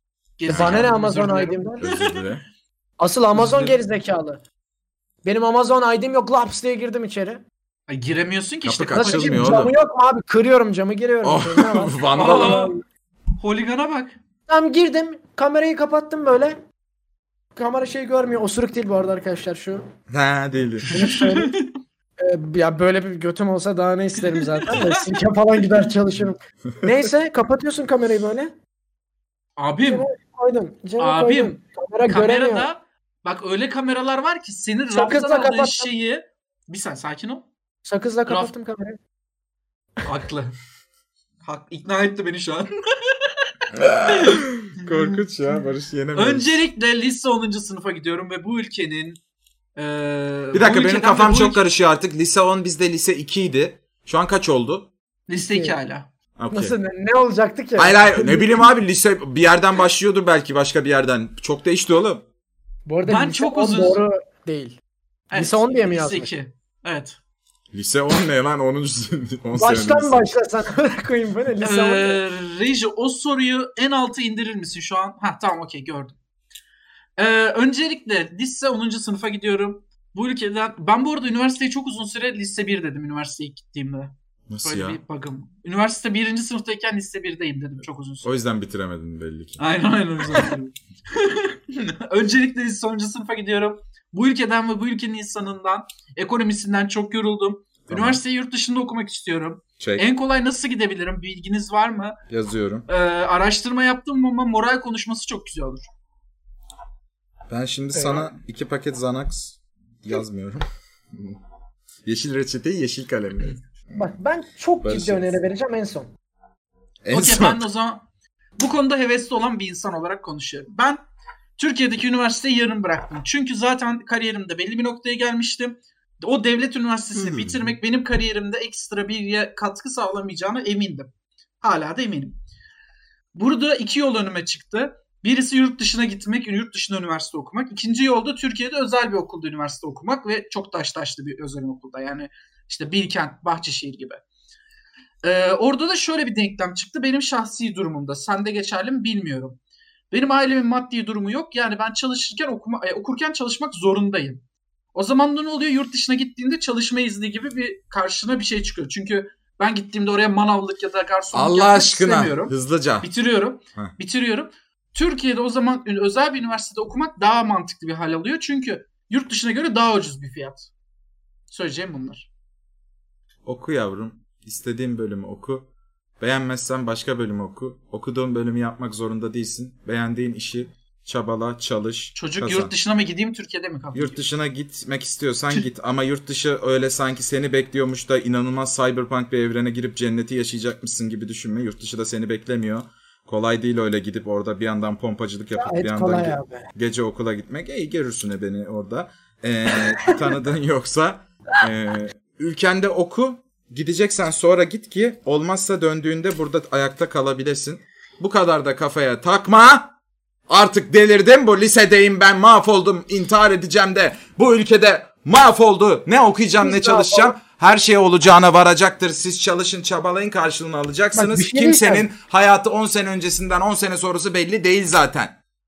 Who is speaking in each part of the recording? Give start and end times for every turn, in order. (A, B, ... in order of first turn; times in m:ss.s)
0:00.4-0:02.2 A
0:00.5-0:00.8 B
0:00.5-0:01.8 C
0:01.8-0:02.4 B
0:03.0-0:04.4 C
0:03.3-0:03.8 A
0:05.2-0:07.4 C
0:07.9-0:09.5 A
0:08.6-0:09.7 B
0:09.0-0:12.8 C
0:11.2-0:12.7 B
0:12.1-0:12.7 A
0:13.4-0:14.2 A
0:14.5-0:16.6 C
0:17.6-0:19.8 C
0:20.1-0:20.8 B
0:20.8-0:21.7 A
0:20.9-0:21.5 C
0:22.2-0:28.5 C
0:24.2-0:25.0 A
0:29.6-0:30.1 A
0:29.9-0:32.7 C
0:31.0-0:37.5 A
0:34.9-0:35.9 C
0:37.8-0:39.0 C
0:38.3-0:38.5 A
0:40.0-0:40.5 A
0:41.4-0:42.7 A
0:43.7-0:46.6 B
0:44.0-0:45.2 A
0:46.1-0:49.2 A
0:49.8-0:51.6 A
0:50.5-0:54.9 B
0:55.3-0:56.1 A
0:55.4-0:55.8 C
0:56.4-0:56.8 B
0:56.5-0:58.7 C
0:57.8-1:02.2 B
1:02.8-1:04.8 C
1:03.0-1:04.0 A
1:05.3-1:07.2 A
1:05.3-1:06.3 C
1:07.7-1:10.2 B
1:09.6-1:12.2 C
1:11.6-1:16.2 A
1:17.2-1:28.3 A
1:24.5-1:25.0 B
1:28.2-1:29.6 B
1:29.6-1:42.2 A
1:37.9-1:38.2 B
1:39.8-1:40.0 B
1:42.3-1:42.8 B
1:42.9-1:45.9 A
1:47.5-1:51.4 B
1:47.9-1:48.3 C
1:52.0-1:53.6 B
1:53.9-1:56.1 C
1:54.8-1:55.3 B
1:57.0-1:57.6 B
1:57.1-1:58.0 A
1:58.6-2:01.0 A
2:01.6-2:11.1 A
2:07.1-2:07.8 B
2:11.6-2:12.4 A
2:13.3-2:24.2 A
2:25.2-2:29.6 A
2:30.1-2:34.4 A
2:34.9-2:50.7 A
2:41.3-2:43.1 B
2:51.5-2:52.3 A
2:53.4-2:55.7 B
2:56.2-3:02.7 B
3:02.1-3:04.2 A
3:03.9-3:29.9 B
3:15.5-3:16.7 C
3:30.5-3:45.4 B
3:36.6-3:37.4 C
3:41.1-3:42.1 C